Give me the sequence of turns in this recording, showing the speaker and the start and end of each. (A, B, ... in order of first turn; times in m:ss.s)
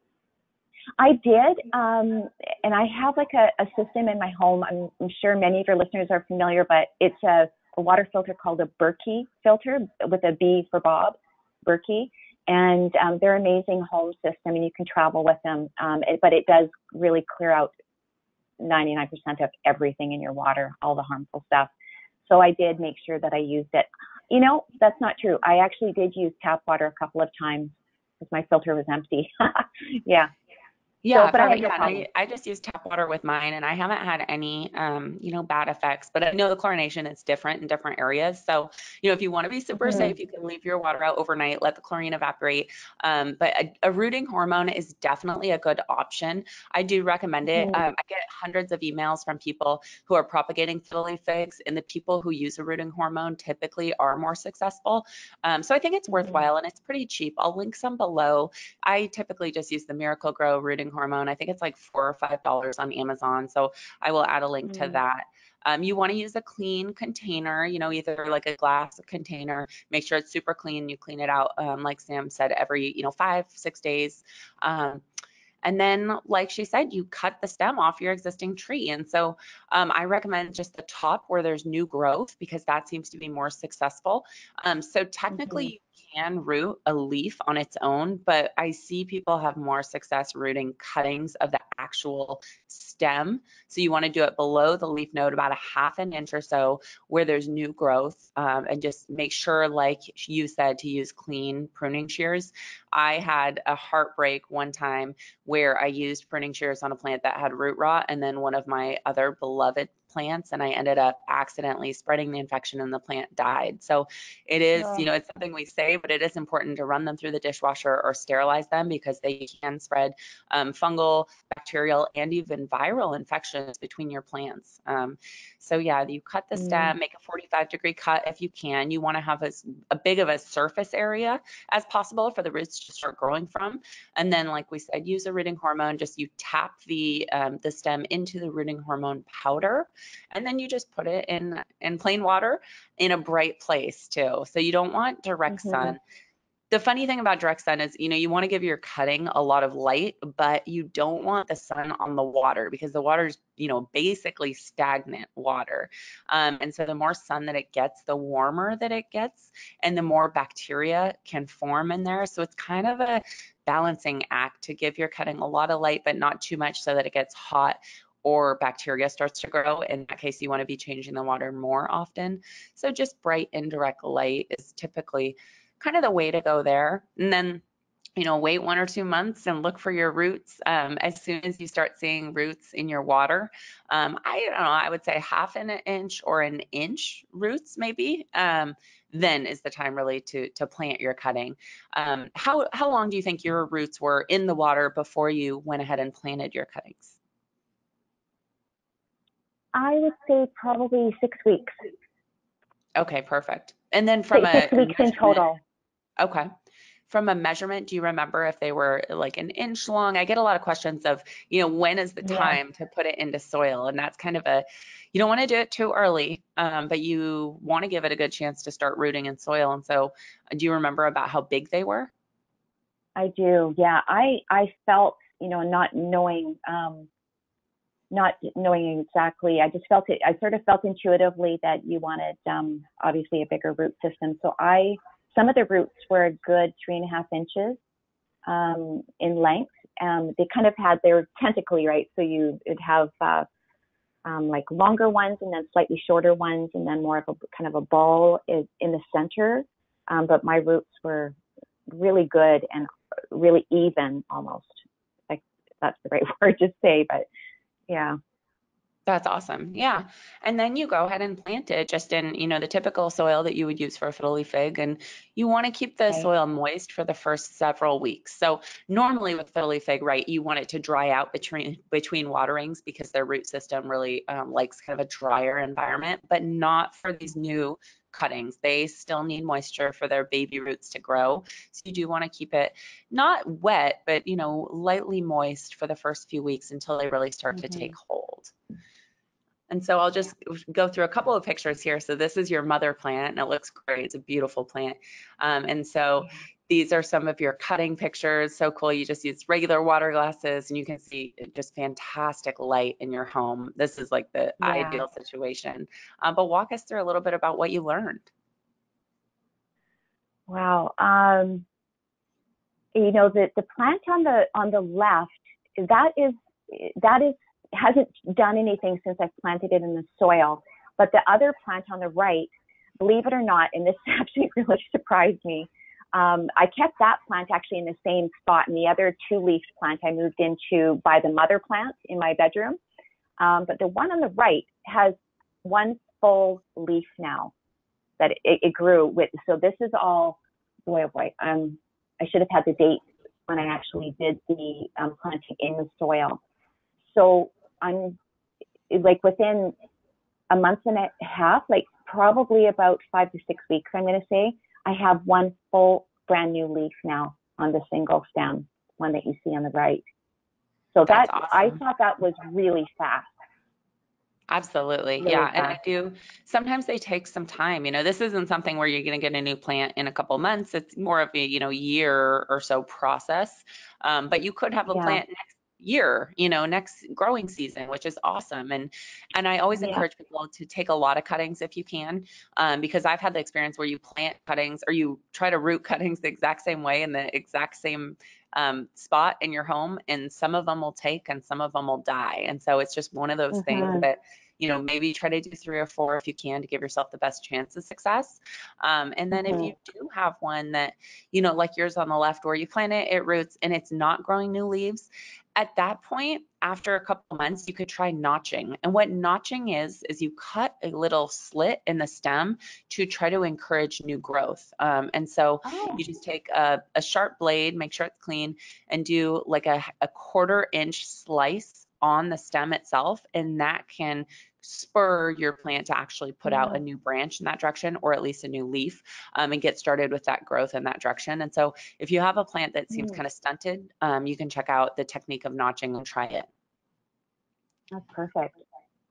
0:01.0-0:17.7 A
0:18.6-0:21.7 A
0:22.2-0:30.3 A
0:31.0-1:15.0 B
0:31.1-0:32.0 A
0:39.8-0:40.1 A
0:47.5-0:47.8 A
0:56.2-0:56.4 A
1:04.7-1:05.0 A
1:15.6-2:26.0 B
1:25.3-1:25.7 A
1:54.8-1:55.0 A
2:06.5-2:06.9 A
2:25.5-2:26.0 A
2:26.7-2:57.6 B
2:58.2-3:17.2 B
3:19.7-3:21.8 A
3:23.0-3:25.4 B
3:24.3-3:25.6 A
3:26.2-3:26.5 B
3:27.1-3:42.1 B
3:32.2-3:32.6 A
3:43.2-3:47.1 A
3:48.1-3:57.8 A
3:58.4-4:03.4 A
4:04.2-4:11.4 A
4:11.9-4:17.3 A
4:17.9-4:18.2 A
4:19.1-4:48.5 B
4:47.6-4:47.9 A
4:49.7-5:08.3 B
5:04.6-5:05.0 A
5:10.5-5:11.6 A
5:12.9-5:32.8 A
5:33.4-5:37.5 A
5:38.2-5:46.4 A
5:47.1-5:48.2 A
5:48.9-5:49.7 A
5:50.5-6:00.0 A
6:00.9-6:03.3 A
6:01.0-6:01.8 B
6:04.5-7:16.5 B
6:05.2-6:05.8 A
6:14.9-6:15.2 A
6:19.8-6:20.0 A
6:33.5-6:34.0 A
6:39.3-6:39.7 A
6:55.6-6:56.0 A
7:06.5-7:06.8 A
7:12.9-7:13.2 A
7:17.9-7:18.6 A